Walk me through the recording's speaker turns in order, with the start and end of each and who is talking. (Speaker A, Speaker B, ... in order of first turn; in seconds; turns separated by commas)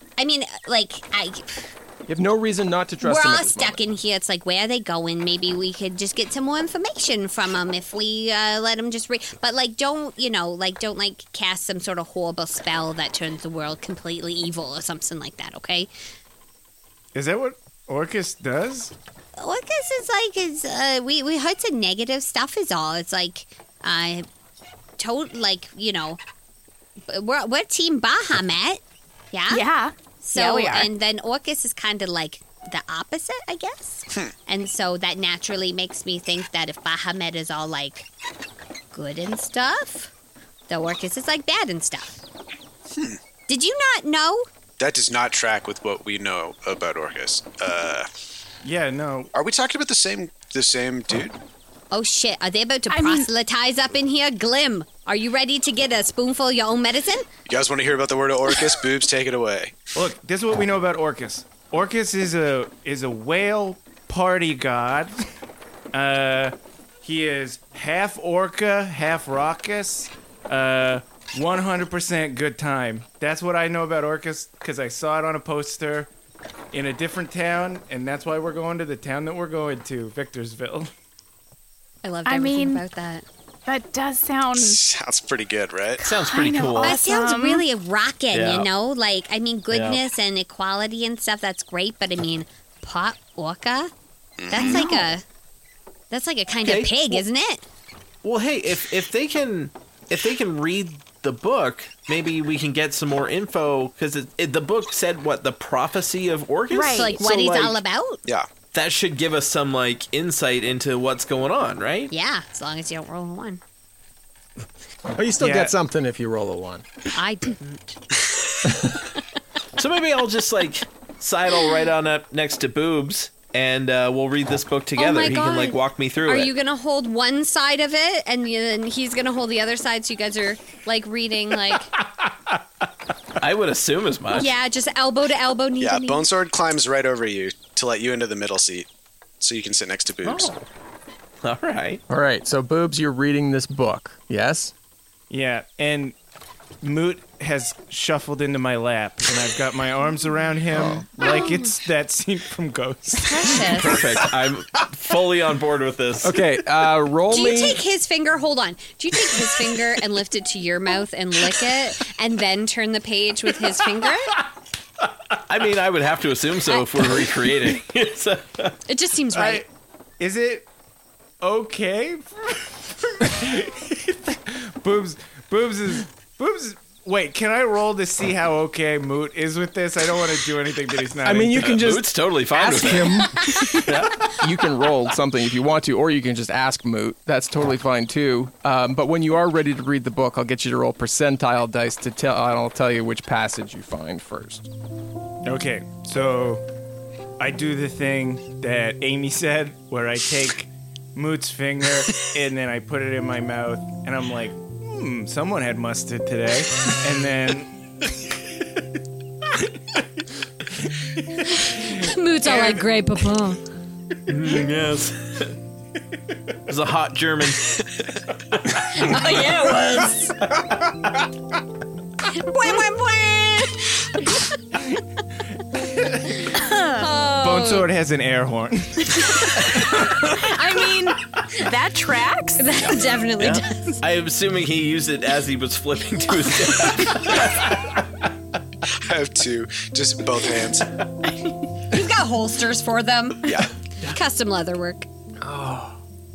Speaker A: 0.2-1.7, Speaker B: 2.1-3.8, Speaker A: 3.0-15.9, Speaker C: 17.1-18.9, Speaker A: 19.4-24.3, Speaker A: 25.0-26.2, Speaker A: 27.1-28.8, Speaker A: 29.3-29.7, Speaker D: 29.5-30.9, Speaker A: 30.2-38.1, Speaker A: 38.9-40.1, Speaker A: 40.7-42.2, Speaker A: 43.5-44.5, Speaker E: 44.8-48.1, Speaker C: 48.6-49.3, Speaker E: 49.3-51.4, Speaker A: 51.9-57.3, Speaker D: 52.9-53.3, Speaker E: 57.5-59.8, Speaker C: 59.9-65.2, Speaker C: 65.9-76.1, Speaker C: 76.7-80.9, Speaker A: 82.0-83.3, Speaker D: 82.3-82.8, Speaker D: 83.7-84.8, Speaker E: 84.5-86.0, Speaker F: 86.0-87.0, Speaker D: 86.1-87.6, Speaker A: 86.8-93.9, Speaker F: 88.3-88.7, Speaker F: 89.7-90.0, Speaker E: 94.4-94.9, Speaker A: 94.5-95.2, Speaker D: 94.5-95.2, Speaker A: 96.1-97.6, Speaker F: 96.6-97.2, Speaker F: 98.2-107.8, Speaker D: 106.7-107.1, Speaker A: 106.8-108.2, Speaker F: 108.7-112.1, Speaker A: 112.1-113.6, Speaker B: 115.1-116.8, Speaker C: 115.4-115.7, Speaker A: 117.1-118.0, Speaker B: 118.7-119.0, Speaker F: 119.8-126.5, Speaker A: 125.0-131.9, Speaker F: 133.4-134.5, Speaker A: 134.3-136.3, Speaker E: 135.8-138.9, Speaker E: 139.4-140.6, Speaker F: 140.2-140.7, Speaker F: 141.4-142.0, Speaker B: 142.1-144.7, Speaker C: 145.3-146.1, Speaker C: 146.8-153.6, Speaker B: 150.7-151.1, Speaker A: 151.2-151.7, Speaker A: 153.2-154.1, Speaker F: 153.7-156.4, Speaker B: 156.2-157.8, Speaker A: 157.3-164.4, Speaker F: 165.5-168.8, Speaker A: 166.7-167.3, Speaker A: 168.9-169.6, Speaker C: 169.3-169.7, Speaker C: 170.2-170.7, Speaker C: 171.4-181.7, Speaker B: 181.2-183.4, Speaker F: 181.5-183.3, Speaker F: 183.9-184.1, Speaker B: 184.4-194.7, Speaker C: 195.4-196.6, Speaker C: 197.4-207.7, Speaker A: 211.6-213.6, Speaker F: 214.3-215.5, Speaker F: 216.7-217.8, Speaker A: 218.9-220.3, Speaker F: 219.0-219.7, Speaker A: 222.3-224.4, Speaker D: 226.6-227.1, Speaker A: 226.9-227.9, Speaker C: 227.4-229.4, Speaker D: 230.3-232.7, Speaker A: 232.6-234.0, Speaker F: 233.4-237.8, Speaker E: 238.9-241.0, Speaker A: 241.9-243.5, Speaker A: 244.1-245.1, Speaker B: 245.4-246.0